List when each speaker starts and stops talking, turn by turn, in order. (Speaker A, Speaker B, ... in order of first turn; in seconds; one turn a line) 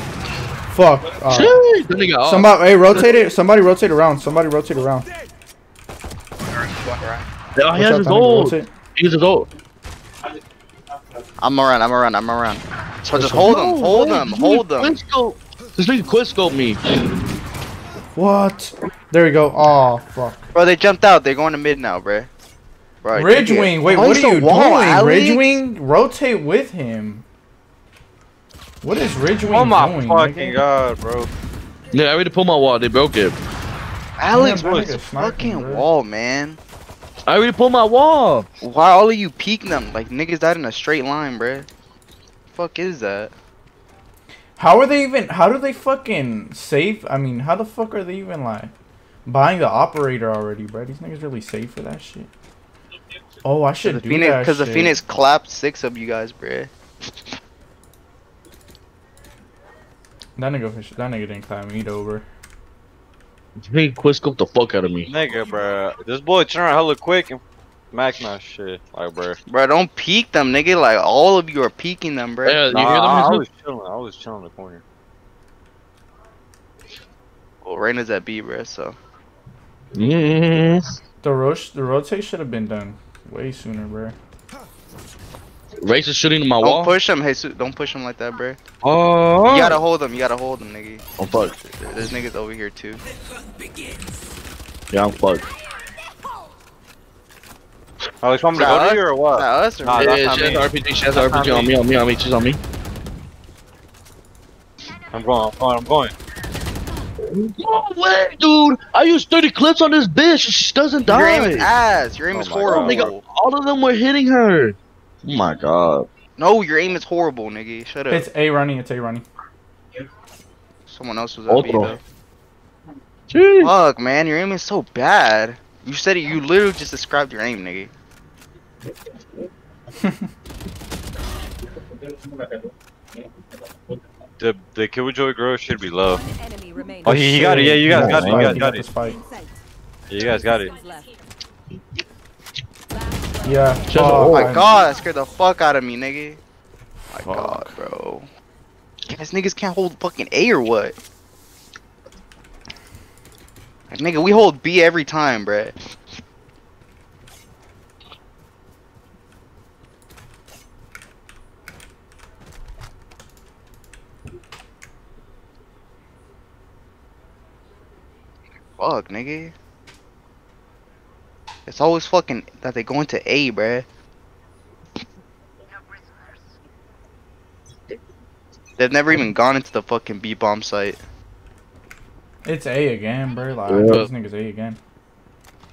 Speaker A: 0.7-1.6
Speaker B: 1.3-2.5
Speaker A: 2.2-5.1
Speaker C: 6.5-7.3
Speaker B: 7.5-9.5
Speaker A: 7.7-8.7
Speaker C: 11.4-14.9
Speaker B: 13.1-17.0
Speaker A: 13.2-13.5
Speaker A: 18.1-20.5
Speaker C: 20.5-22.3
Speaker C: 23.0-25.4
Speaker A: 23.1-27.2
Speaker A: 28.8-30.6
Speaker D: 29.5-31.3
Speaker B: 31.9-33.4
Speaker C: 34.2-36.6
Speaker A: 34.3-35.9
Speaker B: 37.3-38.5
Speaker C: 38.6-41.7
Speaker C: 42.5-43.3
Speaker A: 44.6-48.7
Speaker A: 49.2-52.3
Speaker A: 53.4-54.9
Speaker C: 53.8-56.7
Speaker A: 60.4-62.2
Speaker B: 63.6-65.1
Speaker D: 65.1-67.4
Speaker D: 67.9-69.4
Speaker C: 69.5-72.7
Speaker B: 72.4-73.4
Speaker D: 72.7-74.8
Speaker C: 77.6-78.9
Speaker B: 79.9-81.0
Speaker A: 81.2-84.2
Speaker B: 85.8-86.9
Speaker C: 86.6-88.6
Speaker B: 88.8-89.8
Speaker C: 89.5-91.0
Speaker B: 91.2-91.5
Speaker C: 91.6-93.0
Speaker B: 94.9-95.4
Speaker D: 98.2-101.7
Speaker C: 98.5-100.6
Speaker B: 99.9-102.6
Speaker D: 105.1-106.1
Speaker B: 107.2-111.7
Speaker C: 111.0-113.2
Speaker D: 112.3-113.0
Speaker B: 112.7-116.1
Speaker C: 116.4-118.2
Speaker A: 118.1-119.2
Speaker C: 120.9-122.0
Speaker B: 121.5-122.0
Speaker B: 123.3-123.7
Speaker C: 123.6-127.9
Speaker A: 130.0-130.3
Speaker D: 134.4-136.2
Speaker E: 136.1-137.6
Speaker D: 137.0-138.8
Speaker A: 137.0-139.2
Speaker B: 137.8-138.5
Speaker E: 138.4-141.2
Speaker D: 140.1-140.7
Speaker E: 142.9-145.1
Speaker A: 143.4-144.7
Speaker B: 143.9-144.5
Speaker C: 144.1-146.4
Speaker C: 147.1-148.3
Speaker D: 147.2-147.6
Speaker C: 149.1-150.9
Speaker C: 153.9-155.7
Speaker C: 168.8-169.5
Speaker C: 171.7-173.8
Speaker C: 178.8-181.0
Speaker A: 182.4-184.8
Speaker B: 183.7-184.1